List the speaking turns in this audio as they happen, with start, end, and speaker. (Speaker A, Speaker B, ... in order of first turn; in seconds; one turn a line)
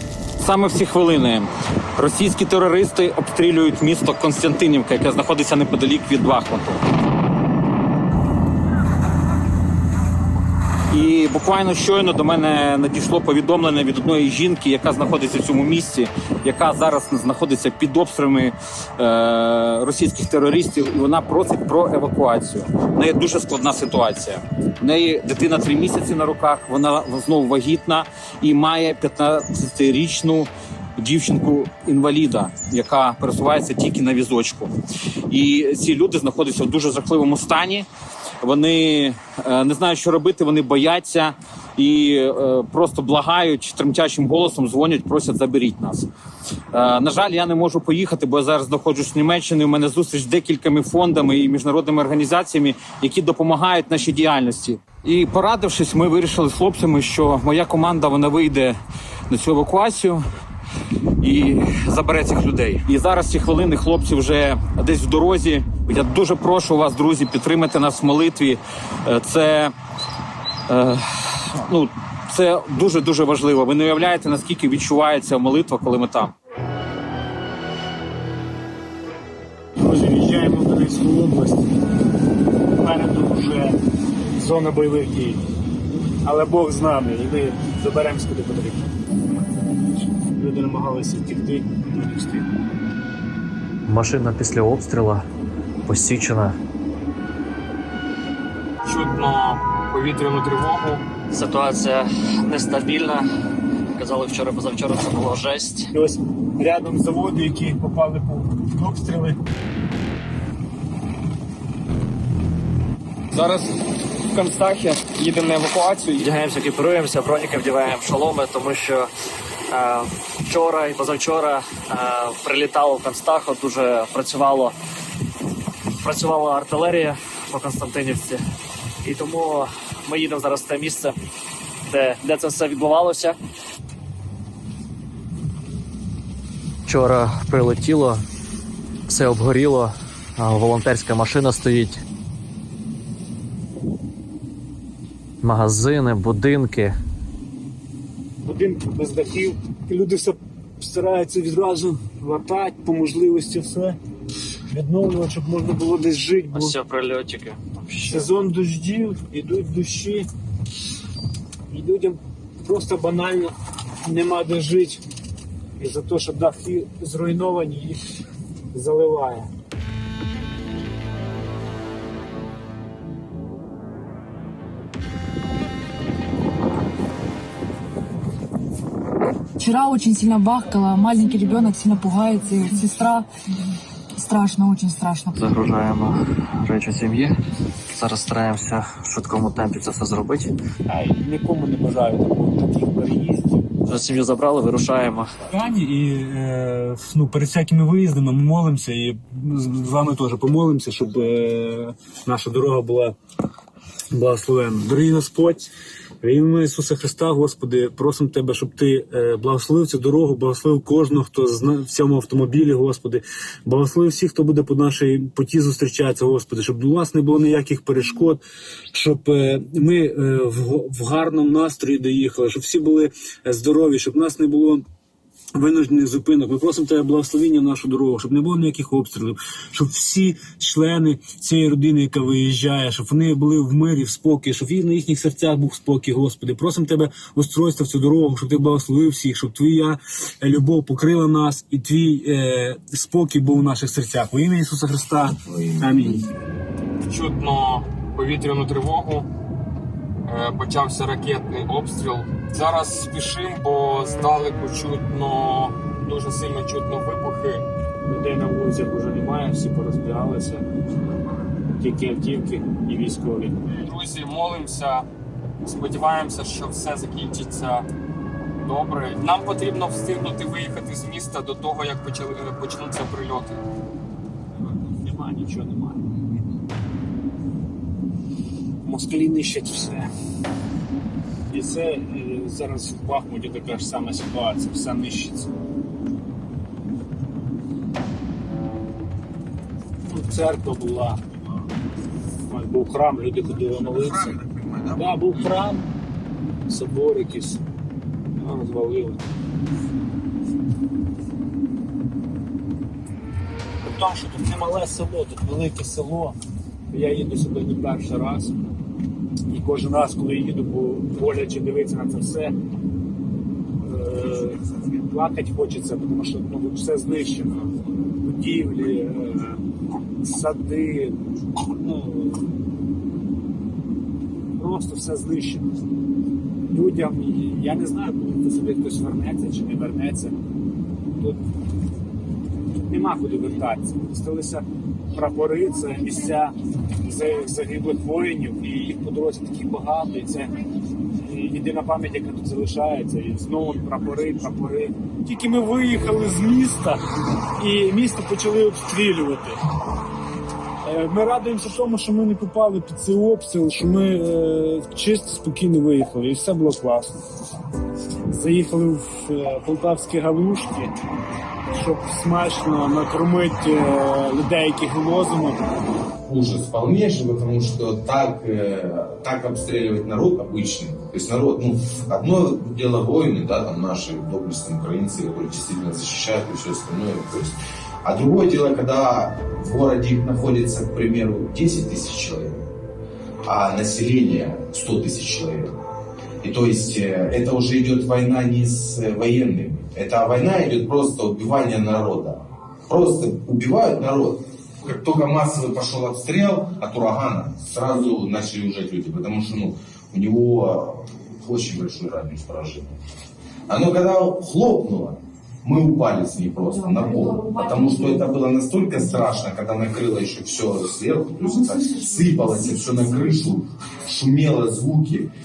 Speaker A: 0.4-6.8
Speaker A: 10.9-34.7
Speaker A: 35.3-37.9
Speaker A: 38.4-46.1
Speaker A: 46.7-58.8
Speaker A: 59.3-60.2
Speaker A: 61.2-69.7
Speaker A: 70.7-76.3
Speaker B: 79.8-81.8
Speaker B: 82.8-83.8
Speaker B: 84.3-85.4
Speaker B: 86.2-88.9
Speaker B: 90.3-92.5
Speaker C: 93.9-95.2
Speaker C: 95.9-96.6
Speaker D: 98.8-101.0
Speaker C: 101.3-103.3
Speaker C: 103.9-105.9
Speaker B: 105.9-109.4
Speaker D: 113.3-113.7
Speaker D: 114.3-116.3
Speaker C: 116.2-119.1
Speaker C: 120.5-124.8
Speaker C: 126.0-128.4
Speaker C: 129.0-129.5
Speaker C: 130.1-131.0
Speaker C: 131.9-132.8
Speaker C: 136.9-138.2
Speaker C: 139.1-142.0
Speaker C: 145.4-147.0
Speaker B: 148.4-154.0
Speaker B: 154.7-156.8
Speaker C: 156.5-158.3
Speaker B: 158.1-160.3
Speaker B: 161.7-163.5
Speaker B: 164.0-165.0
Speaker B: 165.8-168.0
Speaker B: 168.7-169.5
Speaker E: 179.6-183.3
Speaker E: 184.2-185.5
Speaker C: 185.3-187.3
Speaker C: 187.9-190.5
Speaker B: 190.9-193.7
Speaker C: 193.9-195.3
Speaker B: 195.5-203.1
Speaker B: 204.1-218.4
Speaker B: 218.9-224.8
Speaker B: 225.6-246.1
Speaker F: 245.4-246.1
Speaker D: 247.1-249.3
Speaker D: 250.3-257.6
Speaker B: 258.0-260.6
Speaker B: 261.8-263.6
Speaker D: 263.7-265.1
Speaker D: 265.6-267.9
Speaker D: 268.6-273.6
Speaker B: 274.7-276.2
Speaker B: 278.8-280.1
Speaker B: 281.5-285.5
Speaker B: 290.1-291.2
Speaker B: 292.4-294.4
Speaker F: 294.3-295.0
Speaker B: 294.9-295.9
Speaker B: 296.7-297.6
Speaker B: 298.4-299.2
Speaker B: 303.8-306.4
Speaker B: 306.9-308.5
Speaker B: 309.5-312.5
Speaker B: 313.8-317.6
Speaker B: 318.2-319.6
Speaker B: 320.2-322.5
Speaker B: 324.6-325.7
Speaker B: 326.7-330.4
Speaker B: 331.1-331.4
Speaker B: 332.9-340.6
Speaker B: 341.2-347.0
Speaker B: 347.6-349.6
Speaker B: 350.8-357.2
Speaker B: 358.3-360.9
Speaker B: 361.7-365.7
Speaker F: 366.3-382.7
Speaker F: 383.4-385.8
Speaker F: 386.4-402.9
Speaker F: 403.7-415.3